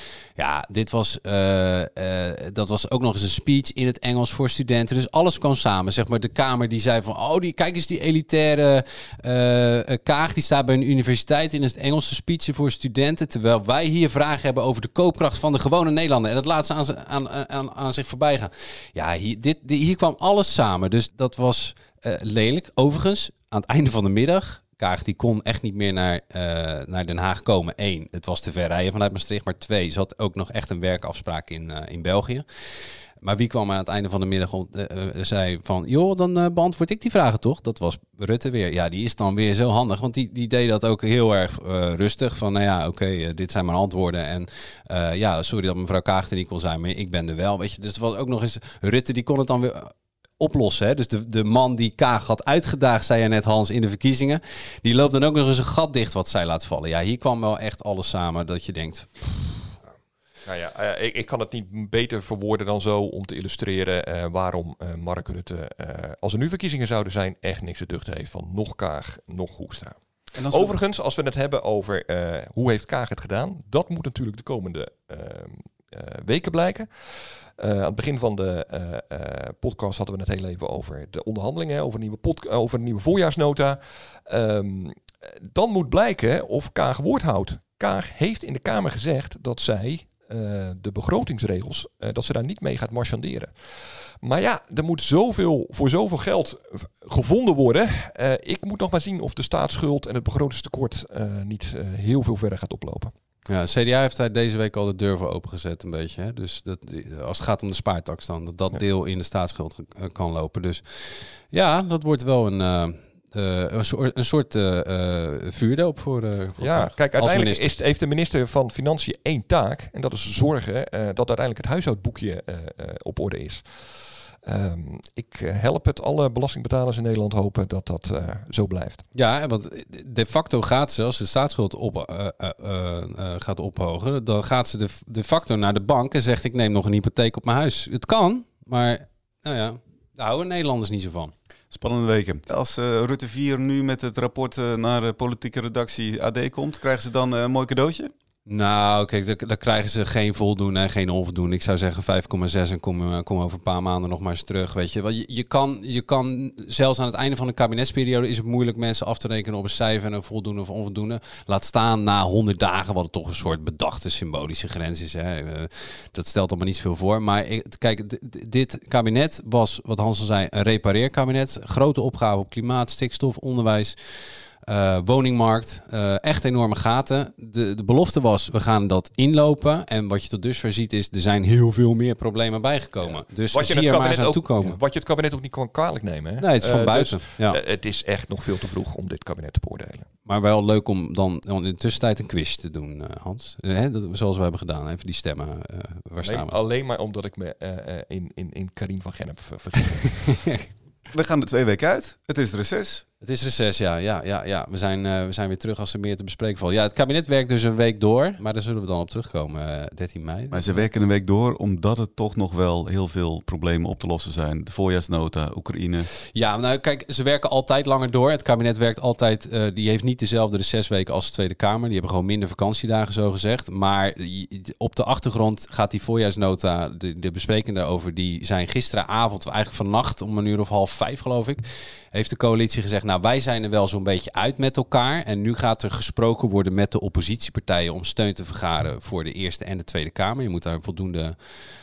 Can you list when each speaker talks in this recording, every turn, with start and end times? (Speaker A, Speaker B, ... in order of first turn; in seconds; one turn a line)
Speaker A: 0.4-32.4
Speaker A: 33.2-59.6
Speaker B: 60.5-76.9
Speaker C: 70.4-70.8
Speaker B: 77.6-93.5
Speaker B: 94.2-103.1
Speaker A: 103.5-117.6
Speaker B: 116.6-129.0
Speaker A: 129.1-141.3
Speaker C: 141.7-148.1
Speaker A: 148.4-173.9
Speaker A: 174.6-184.8
Speaker B: 183.0-190.1
Speaker A: 186.4-187.6
Speaker A: 190.2-196.5
Speaker B: 196.2-200.4
Speaker C: 201.1-203.0
Speaker A: 203.2-210.9
Speaker C: 210.5-216.1
Speaker A: 216.3-231.6
Speaker A: 232.1-241.3